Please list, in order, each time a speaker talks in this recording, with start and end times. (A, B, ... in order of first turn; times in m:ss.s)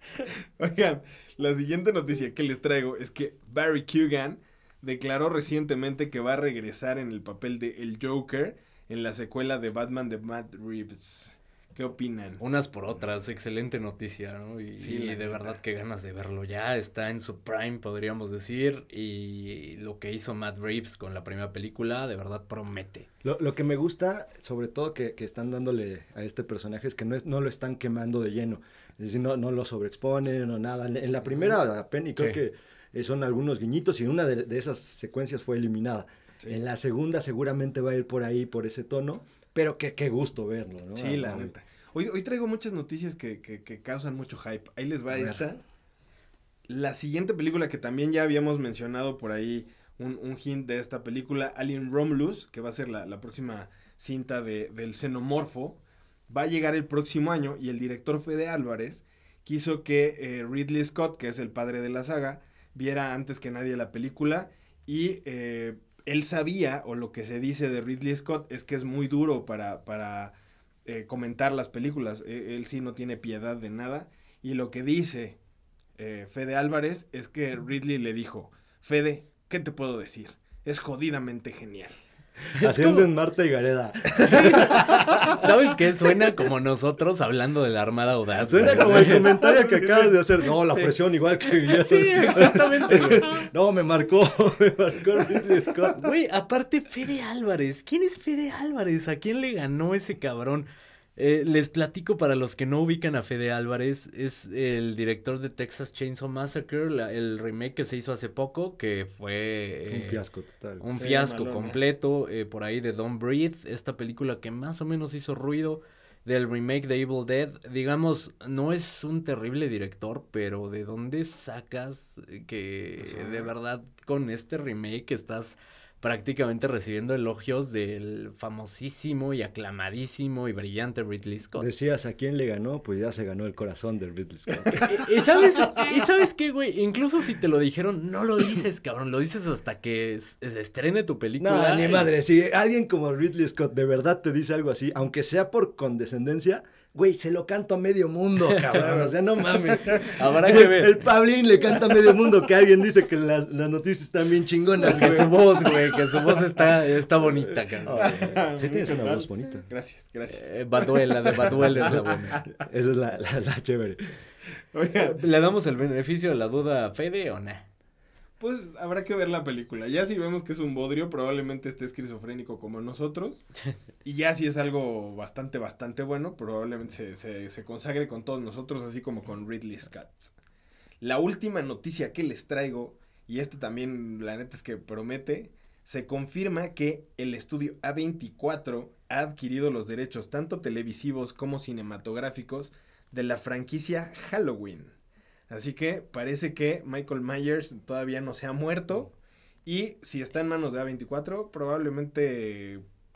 0:00.2-0:12.4 A
0:12.4-0:23.1 B
0:14.8-0:15.6 A
0:23.2-0:41.5 C
0:40.9-0:45.6 A
0:45.1-0:45.4 C
0:46.7-1:10.3 A
1:10.8-1:15.4 A
1:16.0-1:22.0 A
1:22.6-1:23.1 B
1:22.6-1:25.5 C
1:24.2-1:29.3 B
1:28.4-1:36.1 C
1:28.6-1:30.1 A
1:30.6-1:30.9 B
1:31.4-1:33.5 B
1:35.9-1:50.2 B
1:49.9-1:50.9 C
1:50.8-2:11.7 B
1:50.9-1:51.8 A
2:11.6-2:15.1 C
2:14.7-2:22.1 B
2:21.4-2:35.7 C
2:28.5-2:28.8 B
2:29.8-2:31.0 B
2:34.8-2:38.2 B
2:34.8-2:36.4 A
2:37.5-2:39.7 C
2:38.0-2:42.3 A
2:40.3-2:42.4 B
2:41.6-2:44.2 C
2:44.7-2:45.2 A
2:45.0-2:47.6 B
2:48.4-2:53.4 A
2:54.0-3:00.3 A
3:01.0-3:14.9 A
3:15.5-3:19.1 A
3:19.6-3:22.8 A